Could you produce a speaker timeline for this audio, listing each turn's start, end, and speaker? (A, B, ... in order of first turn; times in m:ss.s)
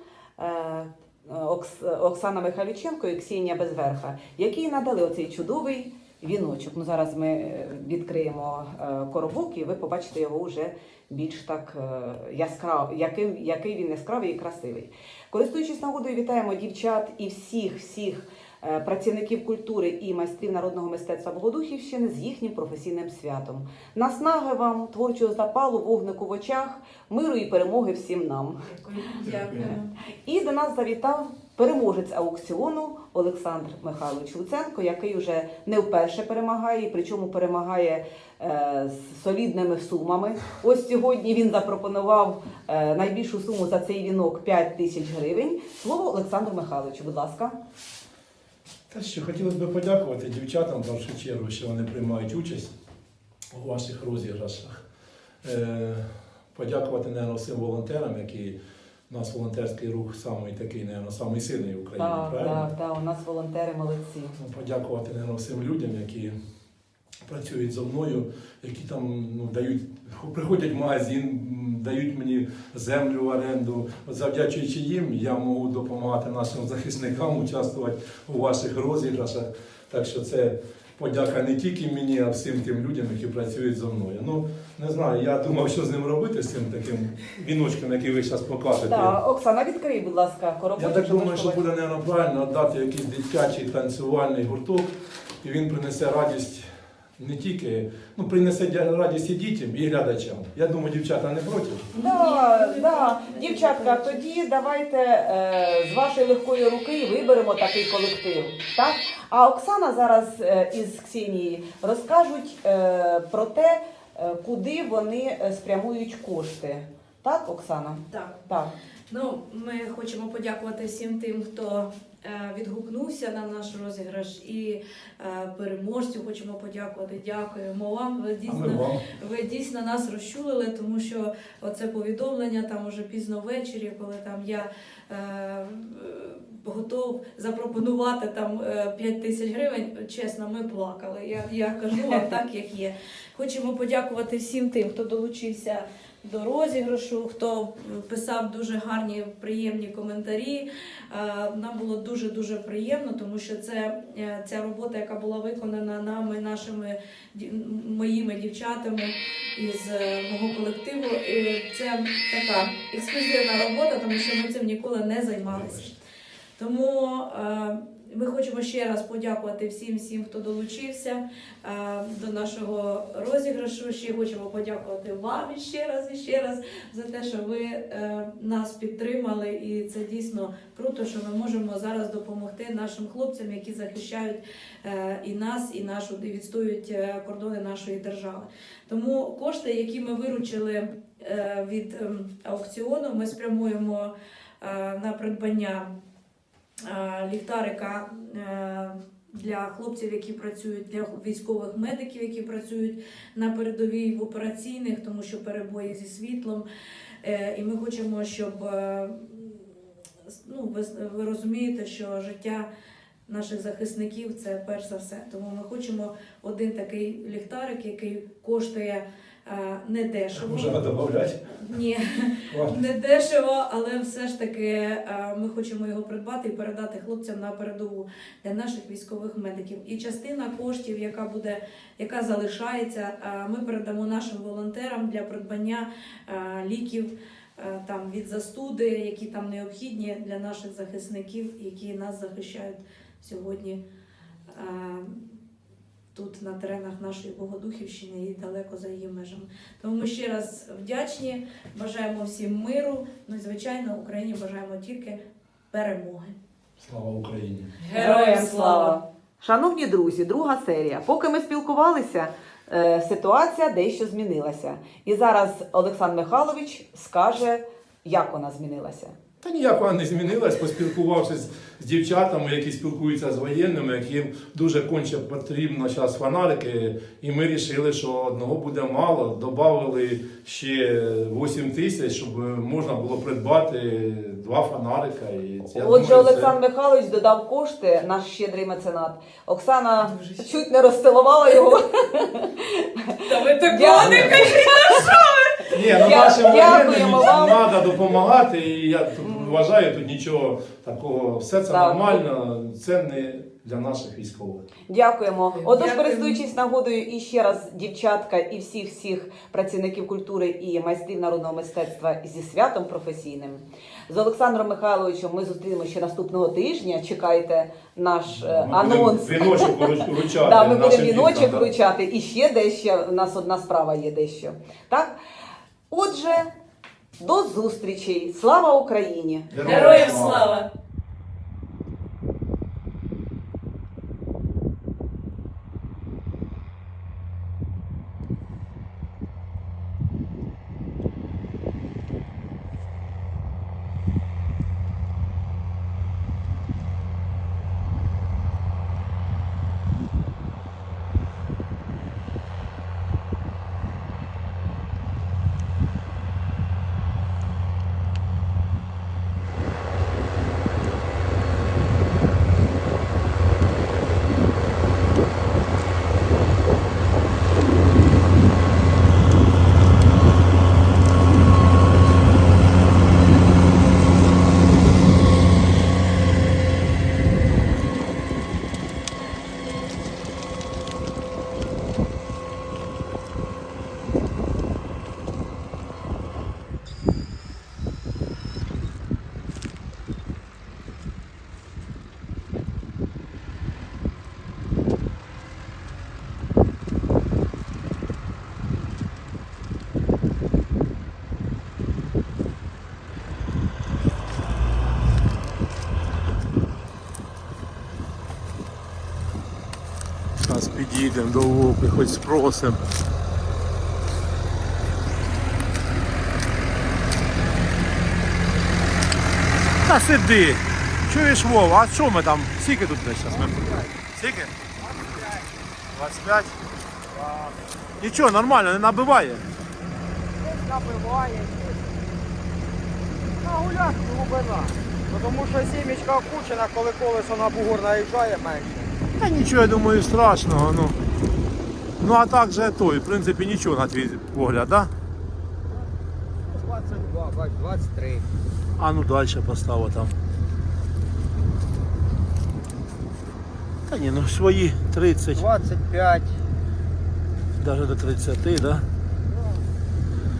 0:00.4-0:28.7 A
0:28.8-0:30.0 B
0:30.1-0:47.6 A
0:48.9-0:52.7 C
0:53.5-0:54.8 C
0:55.4-0:58.6 C
0:59.1-1:02.7 C
1:02.0-1:04.4 A
1:04.4-1:06.4 C
1:07.2-1:29.2 C
1:28.8-1:31.6 A
1:30.8-1:34.9 C
1:35.4-1:41.9 C
1:42.0-1:44.2 B
1:42.0-1:58.7 A
1:58.1-1:58.5 B
1:59.1-2:46.0 B
2:08.5-2:09.1 C
2:21.9-2:22.2 A
2:46.6-3:15.9 B
3:16.9-3:26.7 B
3:27.2-3:29.7 B
3:30.3-3:32.7 B
3:33.3-3:40.8 B
3:40.3-3:41.6 C
3:41.5-4:03.8 B
3:42.5-3:42.8 C
4:04.5-4:05.3 B
4:06.2-4:15.2 B
4:15.7-4:16.4 B
4:16.8-4:17.7 C
4:17.8-4:19.0 B
4:17.9-4:29.2 A
4:29.4-4:46.5 C
4:45.7-4:55.2 A
4:50.1-4:50.4 B
4:53.2-4:57.0 B
4:53.9-4:54.6 C
4:55.7-5:04.7 C
4:55.9-4:57.6 A
4:59.2-4:59.6 A
5:01.7-5:02.2 A
5:04.9-5:25.2 A
5:05.6-5:06.4 B
5:18.3-5:21.7 C
5:25.9-5:26.5 A
5:27.2-5:29.7 A
5:29.5-5:30.5 C
5:29.6-5:30.7 B
6:50.4-6:52.8 C
6:59.8-7:03.6 C
7:03.3-7:04.0 D
7:04.1-7:04.5 C
7:04.8-7:05.5 D
7:05.9-7:06.6 C
7:07.1-7:07.6 D
7:08.0-7:09.5 C
7:10.4-7:11.9 D
7:13.4-7:18.9 D
7:19.2-7:21.0 C
7:22.0-7:24.9 C
7:26.5-7:28.3 D
7:28.8-7:30.2 C
7:33.9-7:35.5 C
7:35.3-7:36.4 D
7:37.6-7:38.9 C
7:39.3-7:39.7 D